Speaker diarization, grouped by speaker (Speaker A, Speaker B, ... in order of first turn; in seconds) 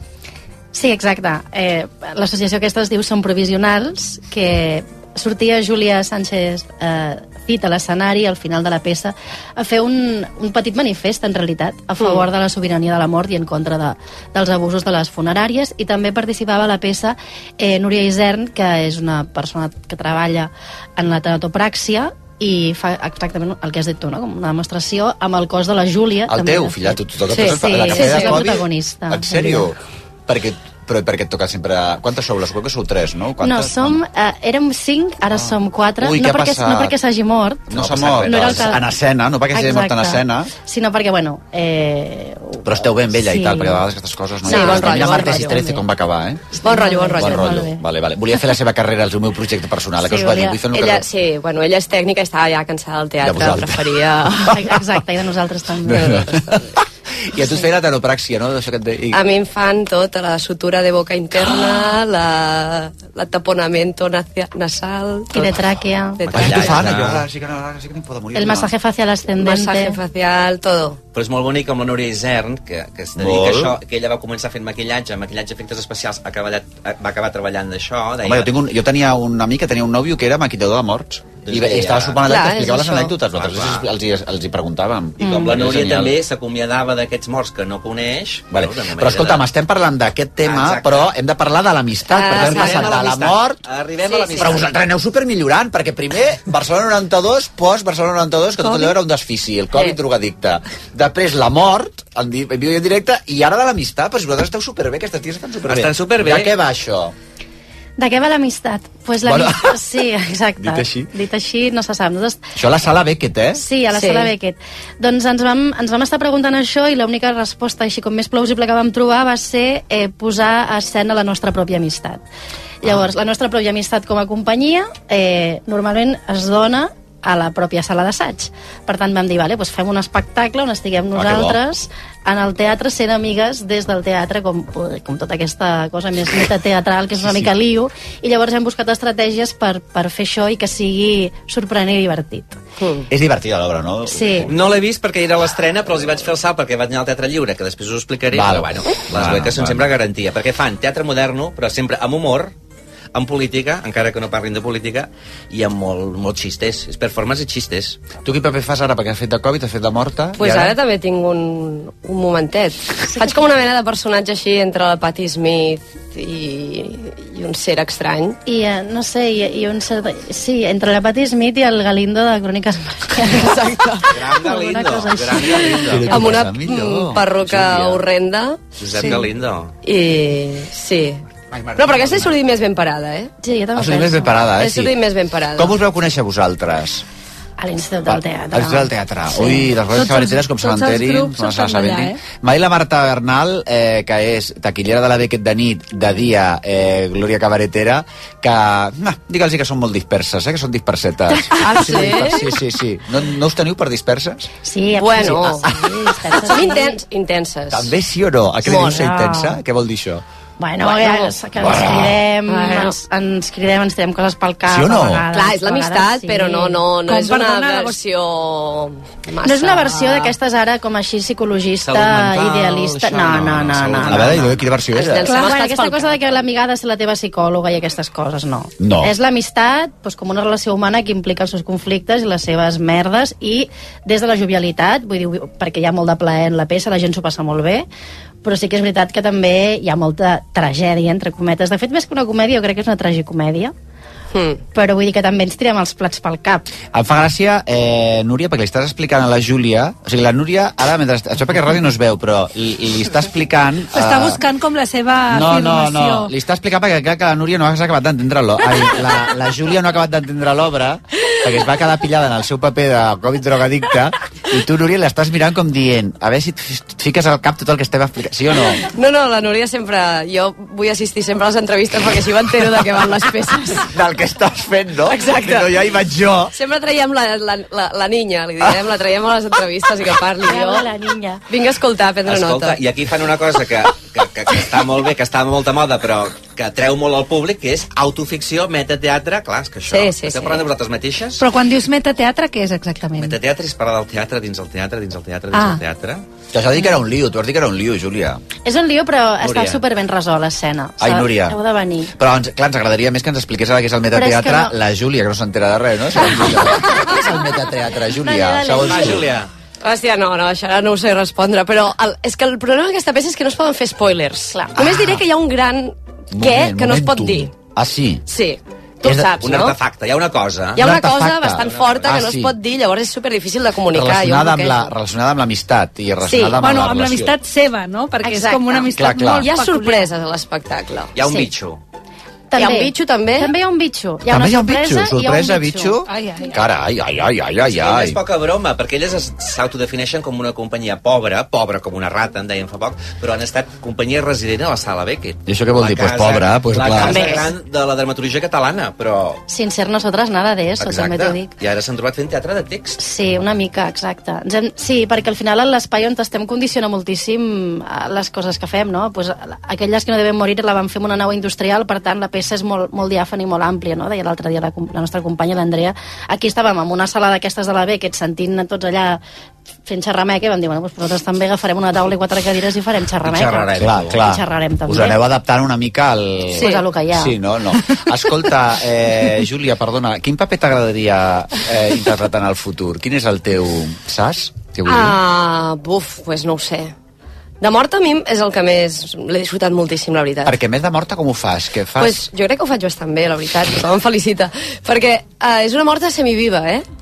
Speaker A: 0.7-29.7, 33.4-37.7, 38.2-38.8, 39.5-43.8, 44.5-45.8, 46.6-47.8, 50.0-50.6, 54.5-56.3, 65.3-66.3, 68.3-70.0, 108.0-112.4, 113.6-122.2, 122.8-142.6, 144.1-144.5, 168.5-173.6, 174.4-176.2, 183.4-184.4, 187.6-189.6, 204.6-207.0, 209.1-209.4, 210.6-216.8, 219.4-224.4, 225.3-237.9, 238.4-243.7, 244.7-246.7, 280.4-281.4, 298.6-302.1, 304.1-304.7, 308.3-308.7, 314.5-314.8, 332.5-336.0, 347.1-347.4, 349.5-351.5, 353.0-369.2, 369.9-373.7, 374.2-375.2, 376.6-377.3
Speaker B: 12.0-12.3, 27.3-28.4, 44.4-45.6, 46.6-47.6, 50.7-54.6, 59.1-65.6, 66.4-66.8, 69.4-71.0, 82.2-83.2, 92.1-93.0, 94.1-94.5, 113.9-114.3, 142.8-143.1, 160.4-168.4, 173.3-174.1, 175.7-179.2, 179.8-181.2, 181.8-183.3, 184.6-185.8, 201.5-202.6, 205.0-205.7, 206.4-207.9, 208.6-209.2, 210.9-212.9, 215.3-220.4, 224.9-226.2, 244.3-244.6, 268.9-273.9, 275.1-275.8, 276.5-280.9, 281.5-282.8, 289.9-290.7, 309.8-317.5, 318.3-319.8, 320.8-324.9, 326.2-326.6, 328.2-331.3, 332.5-333.5, 347.1-347.4, 376.5-376.9, 384.9-386.9, 387.6-390.6, 392.0-396.9
Speaker C: 26.3-29.8, 30.3-34.0, 35.3-37.0, 37.7-40.5, 42.6-46.6, 47.2-51.1, 53.2-54.7, 55.9-56.7, 57.3-59.2, 66.3-68.7, 73.2-73.8, 78.2-86.2, 88.5-93.6, 94.4-107.1, 109.2-109.8, 110.6-111.1, 112.6-113.6, 131.2-131.6, 143.1-144.5, 148.3-149.9, 158.2-160.8, 175.9-178.0, 181.6-182.3, 183.8-184.9, 185.6-187.0, 188.1-204.5, 205.7-205.9, 207.7-210.2, 211.6-212.2, 214.7-215.2, 224.1-225.3, 228.8-229.1, 246.9-254.4, 255.3-268.9, 273.9-276.5, 296.5-298.4, 301.0-301.6, 302.2-309.3, 314.8-315.2, 316.3-318.2, 319.0-319.7, 320.8-322.6, 323.9-327.4, 328.9-329.5, 334.3-338.2, 345.5-347.4, 373.8-385.2, 390.5-392.3
Speaker D: 37.7-38.5, 66.2-67.2, 71.1-78.5, 81.4-82.3, 83.3-83.9, 85.2-89.5, 90.4-91.1, 92.2-94.7, 105.7-106.5, 144.4-152.5, 153.1-158.0, 174.1-176.2, 178.8-179.7, 181.9-182.3, 221.8-224.8, 282.2-291.4, 293.2-296.2, 299.4-299.8, 308.7-309.5, 319.4-320.9, 321.6-322.1, 331.1-331.8, 337.6-349.4, 350.8-353.0, 373.2-374.2
Speaker E: 189.9-192.2, 210.8-211.3, 217.1-218.0, 225.3-225.9, 253.9-256.3, 291.4-293.4, 295.5-295.8, 326.6-330.1, 336.1-336.6